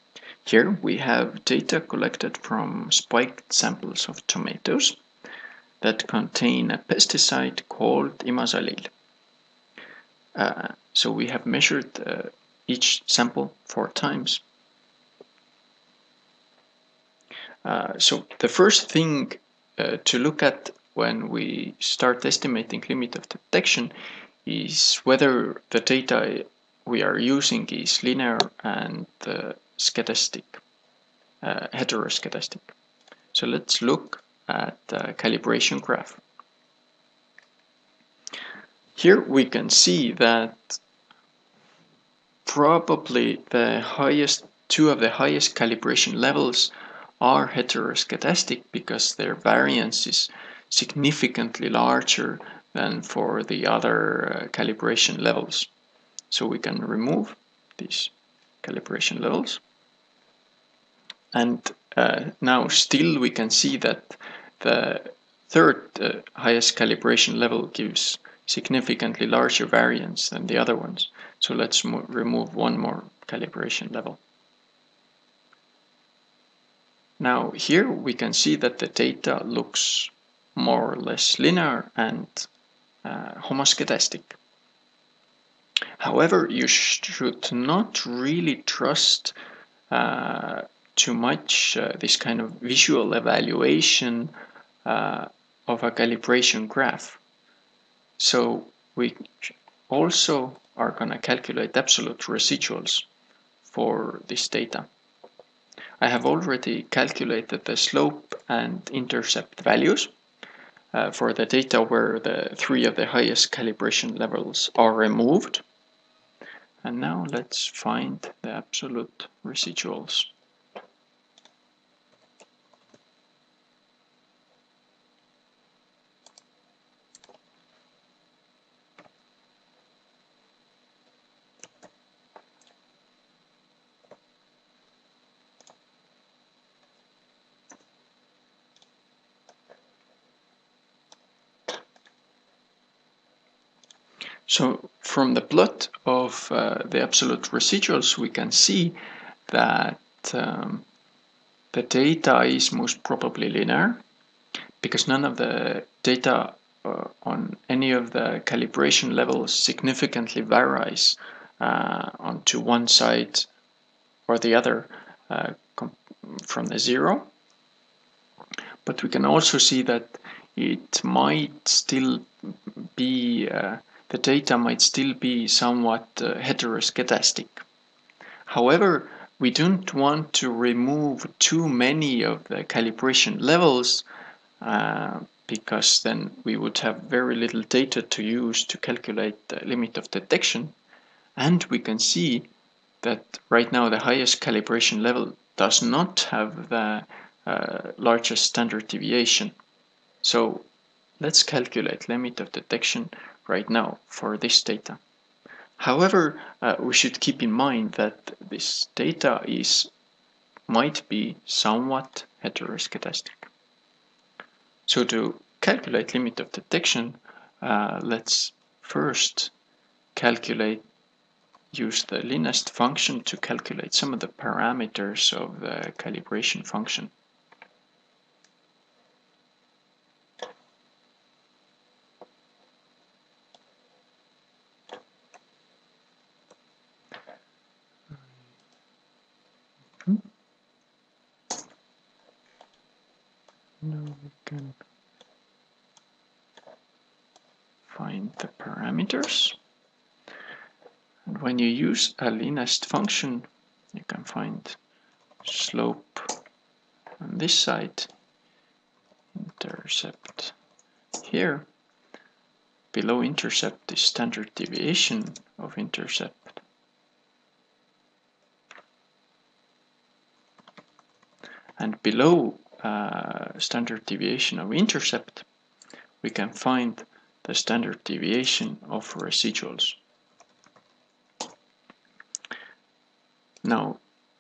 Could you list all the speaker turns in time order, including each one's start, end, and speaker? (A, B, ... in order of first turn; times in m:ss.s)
0:00.4-0:05.0 A
0:05.8-0:08.9 A
0:10.4-0:14.4 A
0:17.6-0:23.9 A
0:24.4-0:30.6 A
0:31.4-0:32.7 A
0:33.3-0:36.2 A
0:39.0-0:40.8 A
0:42.5-0:55.7 A
0:56.3-0:59.6 A
1:01.3-1:14.2 A
1:17.2-1:22.5 A
1:23.0-1:24.4 A
1:26.0-1:29.4 A
1:29.9-1:34.3 A
1:34.8-1:37.2 A
1:38.2-1:43.1 A
1:43.6-1:44.9 A
1:46.0-1:50.1 A
1:50.9-1:55.6 A
1:56.8-2:00.3 A
2:24.5-2:29.0 A
2:29.5-2:30.8 A
2:31.7-2:34.0 A
2:34.8-2:43.5 A
2:44.3-2:47.3 A
2:48.8-2:57.6 A
2:58.5-3:04.0 A
3:04.6-3:10.7 A
3:11.4-3:12.5 A
3:13.0-3:19.6 A
3:20.2-3:20.7 A
3:21.2-3:25.0 A
3:25.8-3:29.9 A
3:30.7-3:33.5 A
3:34.9-3:39.5 A
3:40.2-3:40.8 A
3:41.7-3:47.1 A
4:03.8-4:04.8 A
4:07.9-4:09.6 A
4:11.3-4:14.8 A
4:15.4-4:16.4 A
4:17.2-4:18.1 A
4:19.4-4:20.6 A
4:21.2-4:21.7 A
4:22.9-4:26.6 A
4:31.8-4:35.5 A
4:36.2-4:40.0 A
4:43.6-4:44.0 A